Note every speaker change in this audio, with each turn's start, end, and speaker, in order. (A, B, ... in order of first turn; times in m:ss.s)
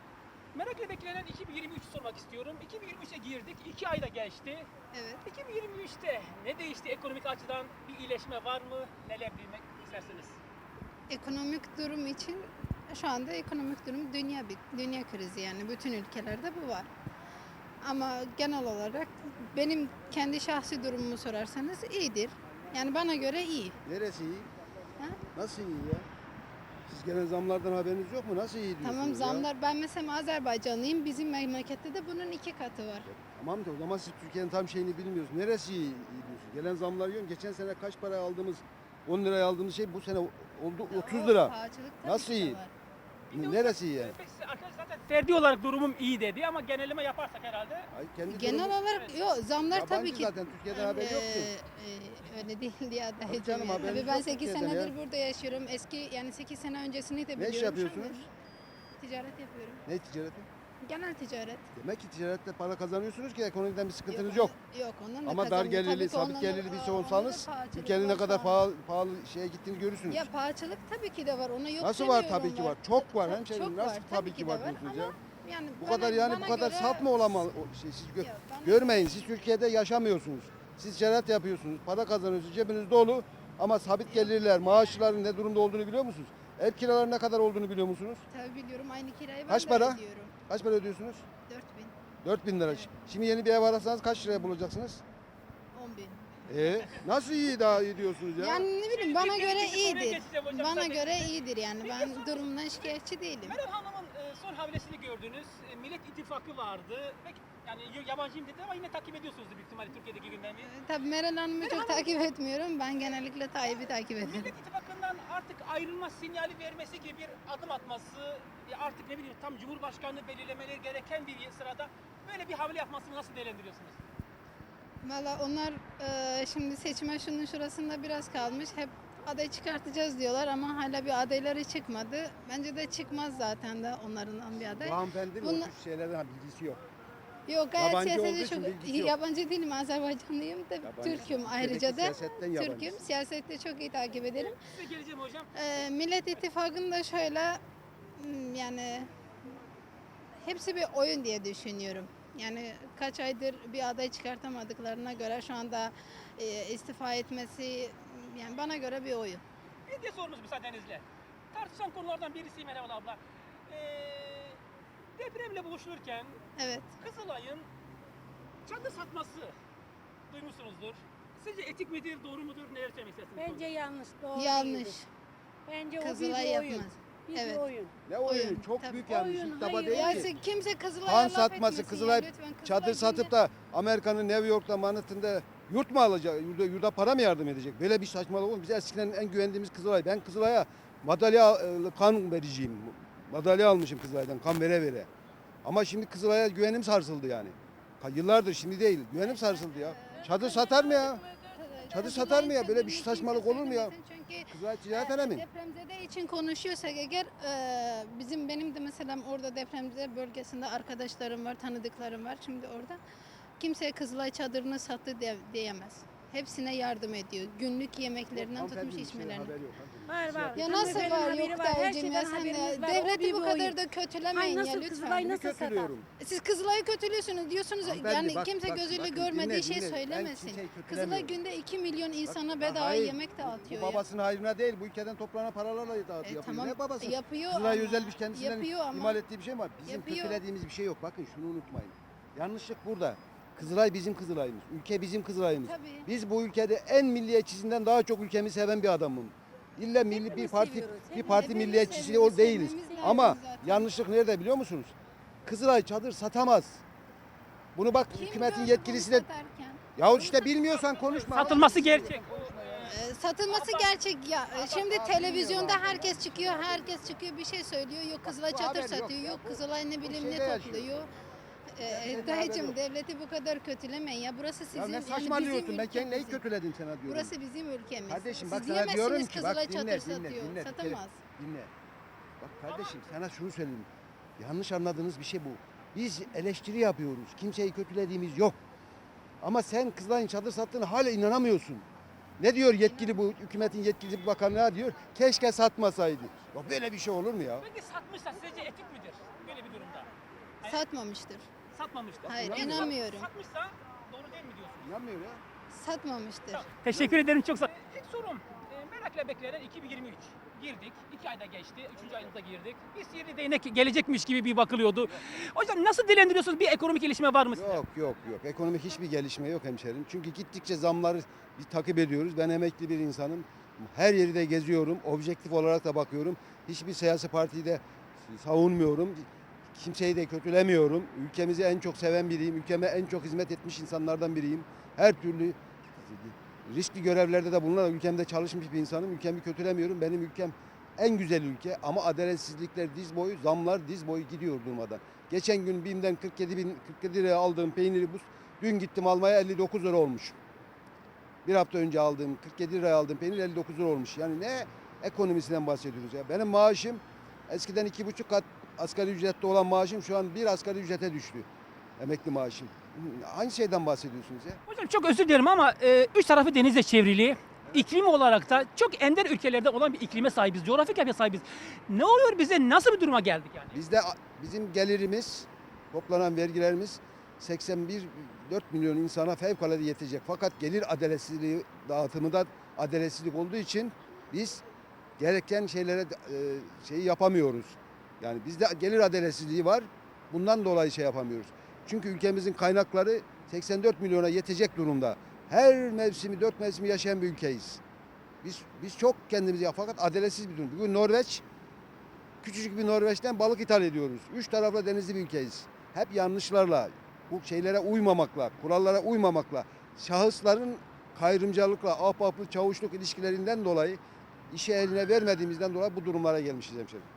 0:00.5-0:04.7 A
0:04.9-0:05.2 B
0:05.2-0:10.4 A
0:11.1-0:16.9 B
0:17.8-0:23.8 B
0:23.8-0:24.5 C
0:25.3-0:26.1 C
0:26.9-0:29.5 C
0:28.8-0:33.1 B
0:33.1-0:42.6 C
0:40.9-0:42.7 B
0:43.3-0:44.1 C
0:43.3-0:47.9 A
0:47.9-0:48.8 C
0:48.3-0:58.3 B
0:48.8-0:49.1 A
0:49.7-0:51.5 C
0:53.2-0:54.9 C
0:57.4-0:58.2 C
0:59.0-0:59.8 B
0:59.9-1:00.5 C
1:00.8-1:01.7 B
1:01.7-1:04.5 C
1:04.1-1:08.7 B
1:05.2-1:10.3 C
1:10.1-1:17.1 B
1:11.8-1:15.2 C
1:15.8-1:28.2 C
1:18.2-1:19.3 B
1:28.3-1:30.3 B
1:29.5-1:31.2 C
1:31.5-1:31.9 B
1:32.2-1:35.0 C
1:35.7-1:36.5 B
1:36.5-1:38.7 C
1:38.4-1:43.6 B
1:38.7-1:42.5 A
1:43.4-1:50.7 A
1:50.6-1:54.5 B
1:51.6-1:52.2 A
1:54.2-2:04.0 A
2:05.0-2:15.7 B
2:14.6-2:16.8 C
2:17.5-2:24.6 B
2:17.8-2:19.2 C
2:20.8-2:23.0 C
2:24.4-2:25.6 A
2:25.5-2:27.6 B
2:28.2-2:29.1 B
2:30.4-2:39.4 B
2:39.9-2:44.6 A
2:45.2-2:46.4 A
2:46.6-2:46.9 B
2:47.0-2:47.7 A
2:48.7-2:49.6 A
2:50.3-2:53.7 A
2:53.4-2:55.0 D
2:54.3-2:55.1 B
2:55.7-2:57.9 D
2:56.0-2:57.6 B
2:58.1-3:00.3 C
2:58.2-2:59.0 B
2:59.0-3:00.2 D
2:59.9-3:03.3 B
3:01.0-3:15.1 C
3:15.6-3:21.2 C
3:19.3-3:20.9 B
3:20.1-3:22.3 D
3:21.5-3:33.0 B
3:21.9-3:23.9 C
3:24.5-3:25.4 C
3:33.6-3:39.5 B
3:38.3-3:41.5 C
3:40.1-3:43.8 D
3:40.5-3:45.4 B
3:44.3-3:45.9 D
3:45.2-3:46.1 C
3:46.2-3:54.0 B
3:47.8-3:51.4 C
3:52.3-4:14.9 C
3:56.2-3:59.2 B
3:59.9-4:00.4 B
4:05.6-4:06.1 B
4:10.1-4:12.0 D
4:11.3-4:13.9 B
4:12.9-4:13.2 D
4:15.4-4:16.8 C
4:17.8-4:19.2 C
4:18.1-4:20.3 B
4:20.0-4:22.9 C
4:20.5-4:23.9 A
4:22.8-4:31.1 B
4:24.5-4:27.0 C
4:28.2-4:31.0 C
4:31.7-4:36.4 B
4:31.8-4:32.8 C
4:34.7-4:37.3 C
4:37.1-4:41.2 B
4:38.1-4:41.7 C
4:42.4-4:48.6 C
4:42.7-4:43.0 A
4:49.4-4:51.8 C
4:52.4-4:57.7 C
4:52.8-4:53.2 B
4:57.6-5:00.1 A
5:00.6-5:01.5 B
5:01.7-5:04.9 A
5:02.2-5:02.9 C
5:02.3-5:03.3 B
5:04.8-5:05.4 C
5:05.7-5:06.7 B
5:06.5-5:17.8 A
5:06.9-5:07.2 C
5:17.5-5:50.4 C
5:51.4-6:01.5 C
6:02.0-6:04.6 C
6:04.7-6:13.8 A
6:13.7-6:24.6 C
6:25.2-6:37.8 C
6:38.4-6:41.4 C
6:42.4-6:57.1 C